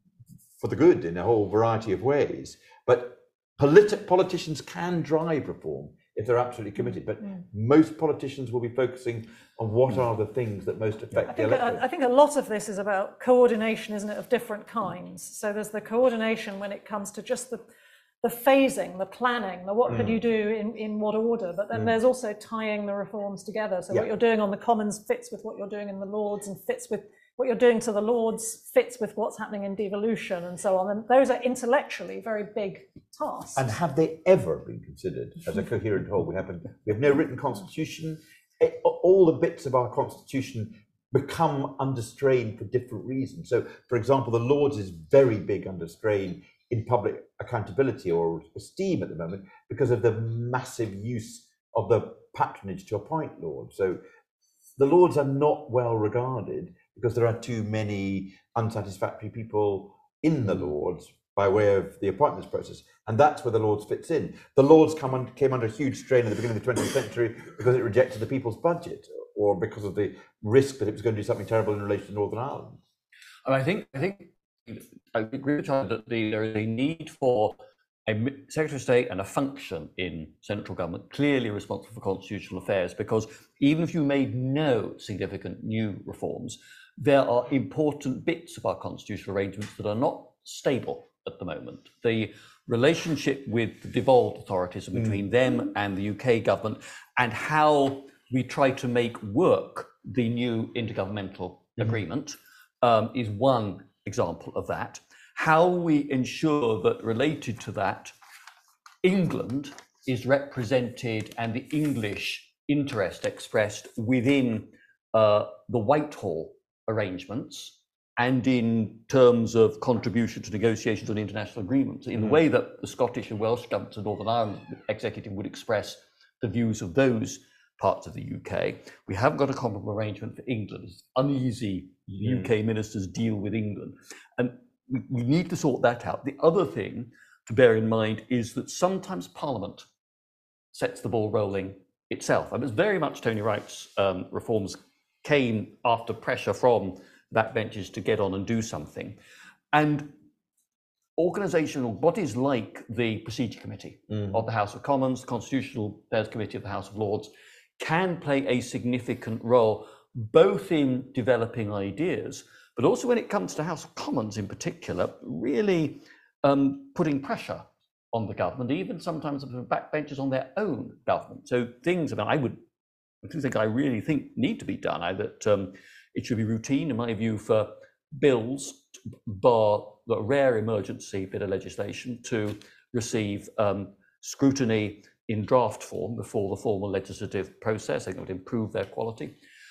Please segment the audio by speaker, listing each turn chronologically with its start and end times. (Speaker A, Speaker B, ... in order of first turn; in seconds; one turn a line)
Speaker A: 0.6-11.8
Speaker B: 11.3-17.6
Speaker B: 18.2-33.7
Speaker A: 19.9-20.2
Speaker A: 33.5-54.0
Speaker A: 54.8-72.8
Speaker C: 73.5-77.5
Speaker C: 78.1-108.1
Speaker C: 109.0-139.9
Speaker A: 132.2-132.5
Speaker C: 140.7-149.2
Speaker C: 149.7-150.1
Speaker C: 151.2-172.6
Speaker A: 154.1-154.4
Speaker C: 173.2-189.3